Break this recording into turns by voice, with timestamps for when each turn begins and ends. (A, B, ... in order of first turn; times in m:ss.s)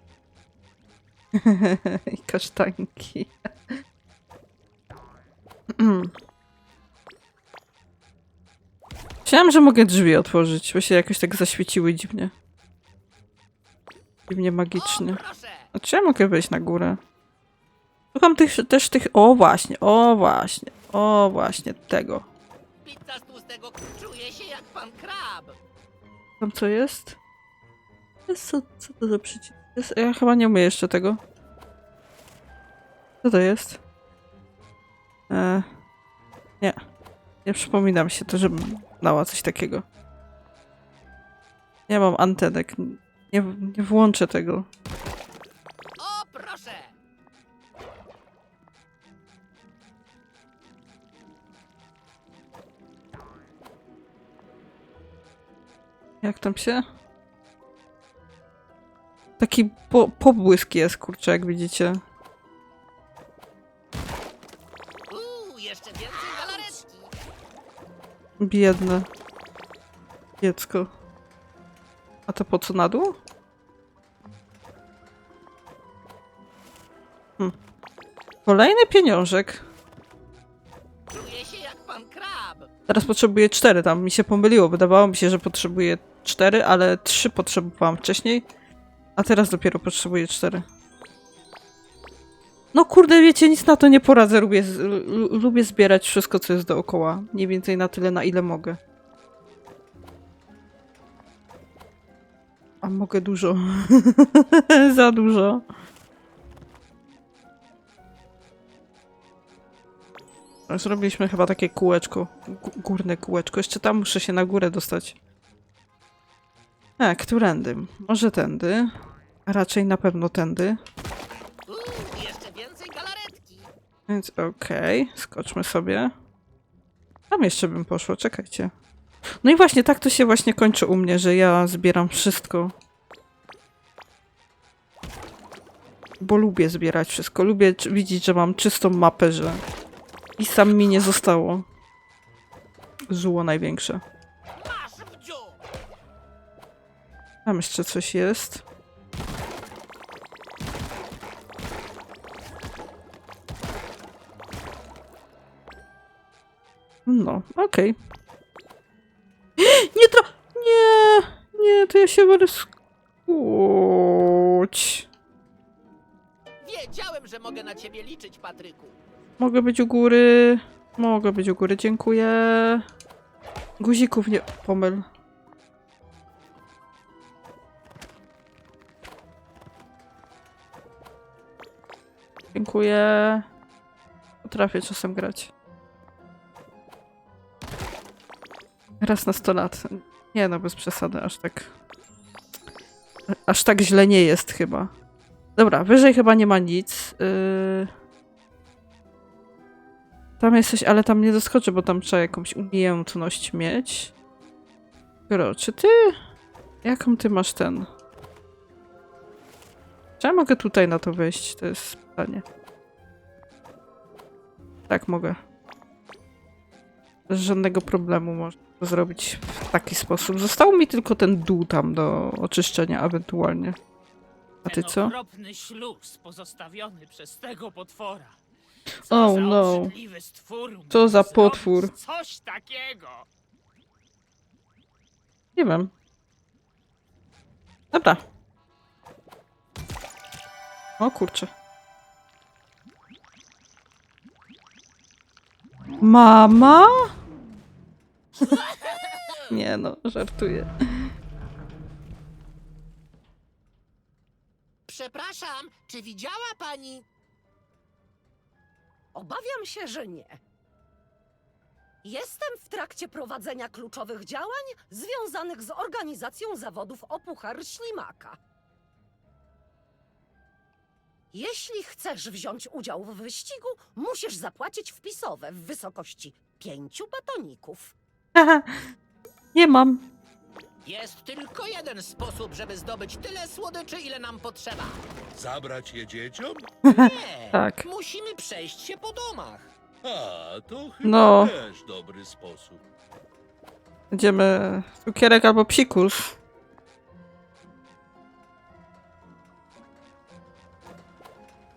0:01.3-0:03.8 A
0:05.7-0:06.1 A
0:09.2-0:12.3 A
0:14.3-0:15.2 A
0:14.7-0:15.7 B
0:15.7-0:17.0 A
0:18.1-0:22.3 A
0:22.8-0:25.6 B
0:26.4-0:27.2 A
0:28.3-0:31.2 A
0:33.2-0:33.8 A
0:35.3-0:35.7 A
0:37.4-0:39.8 A
0:41.9-0:44.7 A
0:46.0-0:46.9 B
0:56.2-0:56.8 A
0:59.4-1:02.0 A
1:05.1-1:07.1 B
1:08.4-1:09.1 A
1:10.4-1:10.9 A
1:12.3-1:13.2 A
1:18.4-1:19.6 A
1:21.1-1:22.7 B
1:22.9-1:28.4 A
1:29.2-1:30.6 A
1:32.7-1:38.8 A
1:42.8-1:45.6 A
1:50.7-1:55.2 A
1:57.0-1:58.9 A
1:59.4-2:00.8 A
2:01.7-2:03.7 B
2:04.1-2:06.1 A
2:07.3-2:08.7 A
2:09.4-2:12.7 A
2:16.2-2:19.6 A
2:20.4-2:21.6 A
2:23.1-2:24.0 A
2:24.6-2:25.6 B
2:27.4-2:28.6 A
2:37.0-2:37.9 A
2:39.6-2:42.7 A
2:43.3-2:45.0 A
2:46.6-2:49.0 B
2:49.4-2:52.8 A
2:53.8-2:55.1 A
3:02.5-3:03.5 A
3:04.4-3:05.5 A
3:09.0-3:11.7 A
3:13.3-3:14.9 A
3:15.6-3:17.9 A
3:20.4-3:24.1 A
3:25.3-3:26.2 A
3:26.8-3:27.9 A
3:30.2-3:32.4 A
3:34.9-3:35.4 A
3:37.3-3:43.8 A
3:44.6-3:45.1 A
3:44.6-3:48.4 C
3:49.0-3:53.3 C
3:49.1-3:49.9 A
3:50.9-3:51.9 A
3:55.6-3:55.9 A
3:57.9-3:58.2 A
4:01.0-4:01.5 A
4:06.0-4:07.1 A
4:08.4-4:09.3 C
4:09.5-4:11.1 A
4:14.8-4:17.0 B
4:19.1-4:20.4 D
4:22.0-4:28.4 D
4:31.3-4:37.9 D
4:38.3-4:38.8 A
4:39.5-4:40.1 A
4:40.8-4:45.0 B
4:45.3-4:46.7 E
4:46.9-4:47.8 A
4:46.9-4:49.7 B
4:50.0-4:52.8 E
4:51.0-4:51.5 A
4:54.1-4:56.4 A